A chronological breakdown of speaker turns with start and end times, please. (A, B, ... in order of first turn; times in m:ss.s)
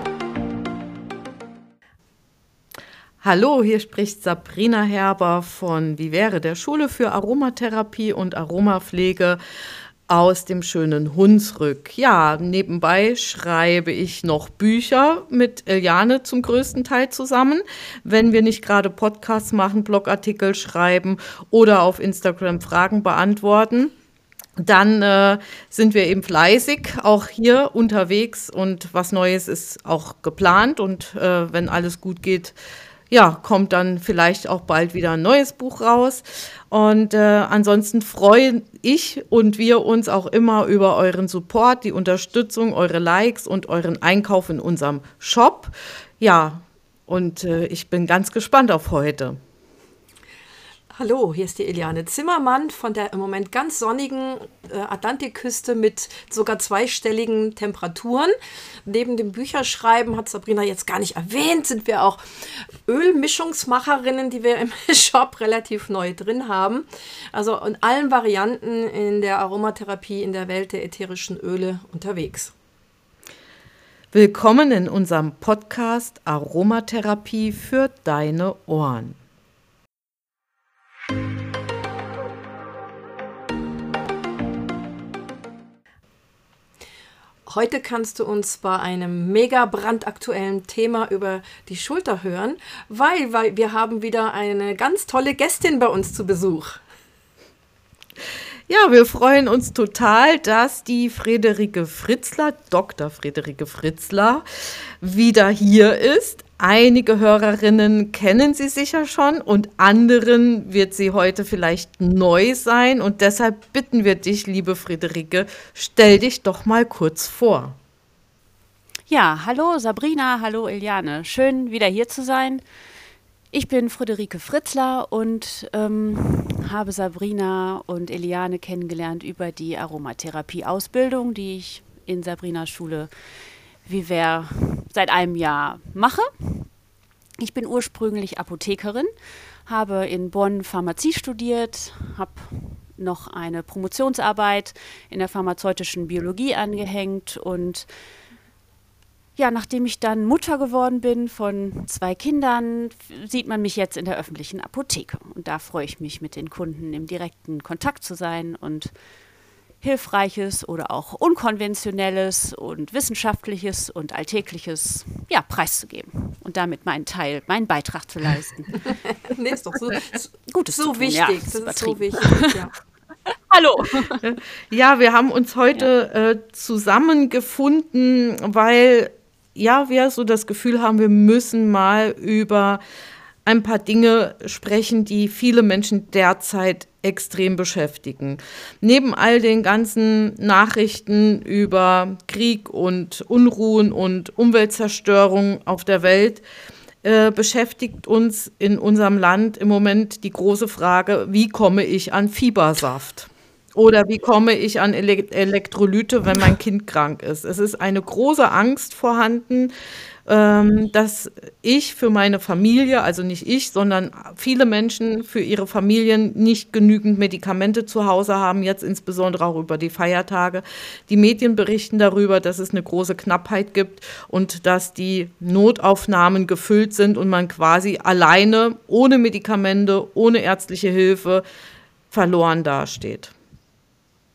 0:03.2-0:09.4 A
0:10.1-0:23.9 A
0:24.6-0:32.6 A
0:33.1-0:49.4 A
0:50.9-0:58.3 B
0:58.9-1:02.2 B
1:02.9-1:12.5 B
1:14.1-1:19.2 A
1:27.5-1:36.8 B
1:38.7-1:57.8 A
1:59.1-2:02.6 C
2:03.5-2:13.1 C
2:13.8-2:16.7 C
2:17.4-2:19.1 C
2:19.7-2:27.9 C
2:29.4-2:38.9 C
2:39.8-2:48.8 C
2:49.2-2:52.7 B
2:50.5-2:52.6 C
2:53.3-2:54.2 C
2:54.2-3:02.8 A
3:03.4-3:16.4 A
3:17.0-3:29.7 A
3:30.3-3:51.4 A
3:52.1-3:53.3 A